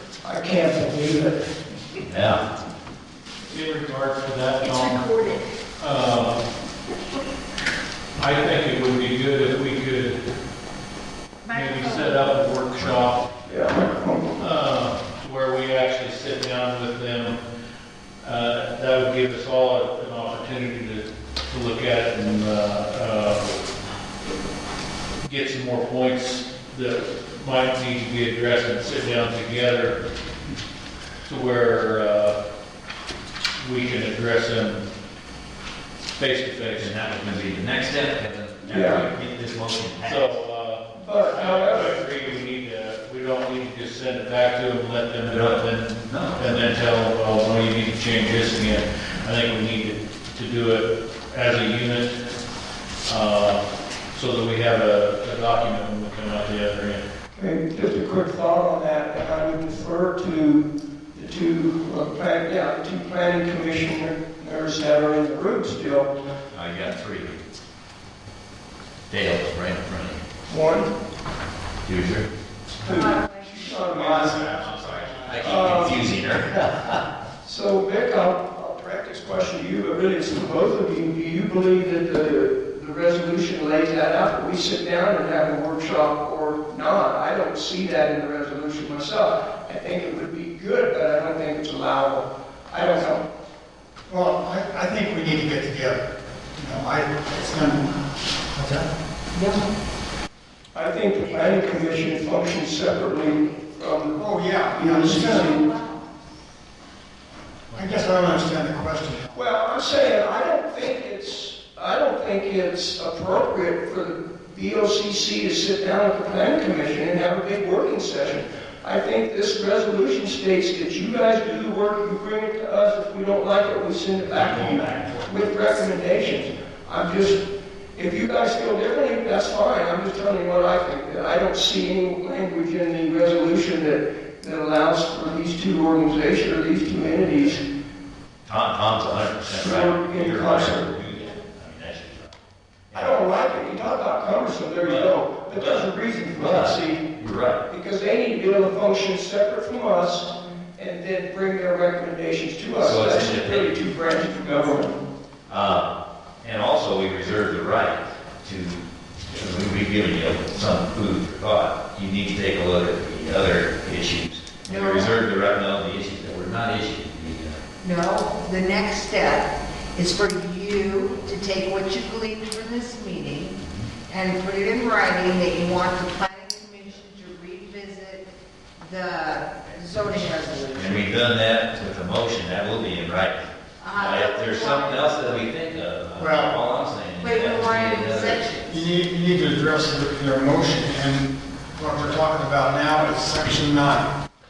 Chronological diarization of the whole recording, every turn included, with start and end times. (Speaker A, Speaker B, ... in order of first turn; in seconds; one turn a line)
Speaker A: 0.2-1.4
Speaker B: 2.1-2.4
Speaker C: 3.5-5.2
Speaker D: 4.8-5.4
Speaker C: 5.8-6.3
Speaker C: 8.2-10.2
Speaker C: 11.5-13.2
Speaker A: 13.5-14.4
Speaker C: 14.4-17.4
Speaker C: 18.2-23.5
Speaker C: 25.2-30.0
Speaker C: 31.2-32.4
Speaker C: 33.6-34.8
Speaker C: 36.1-37.0
Speaker B: 36.8-40.4
Speaker A: 38.7-39.0
Speaker C: 40.0-52.2
Speaker A: 41.0-42.0
Speaker B: 45.3-46.7
Speaker C: 53.0-57.0
Speaker A: 57.4-66.1
Speaker B: 66.5-67.4
Speaker B: 69.1-70.2
Speaker A: 70.5-70.9
Speaker B: 71.8-72.3
Speaker A: 72.8-74.5
Speaker E: 73.9-75.5
Speaker B: 74.0-77.0
Speaker A: 75.4-76.0
Speaker A: 77.4-93.2
Speaker E: 94.1-98.9
Speaker D: 99.3-99.6
Speaker A: 100.7-104.2
Speaker E: 104.1-105.6
Speaker A: 104.7-105.7
Speaker E: 107.7-109.3
Speaker A: 109.3-127.4
Speaker B: 124.2-125.5
Speaker A: 128.0-137.6
Speaker B: 138.5-142.4
Speaker A: 139.6-140.9
Speaker B: 142.9-143.5
Speaker A: 142.9-147.1
Speaker B: 144.8-147.6
Speaker A: 147.7-155.0
Speaker B: 152.8-153.7
Speaker B: 155.5-167.6
Speaker D: 164.6-165.1
Speaker D: 167.8-181.2
Speaker B: 180.7-188.5
Speaker D: 183.8-185.4
Speaker E: 186.2-186.6
Speaker D: 187.2-188.8
Speaker E: 188.7-194.1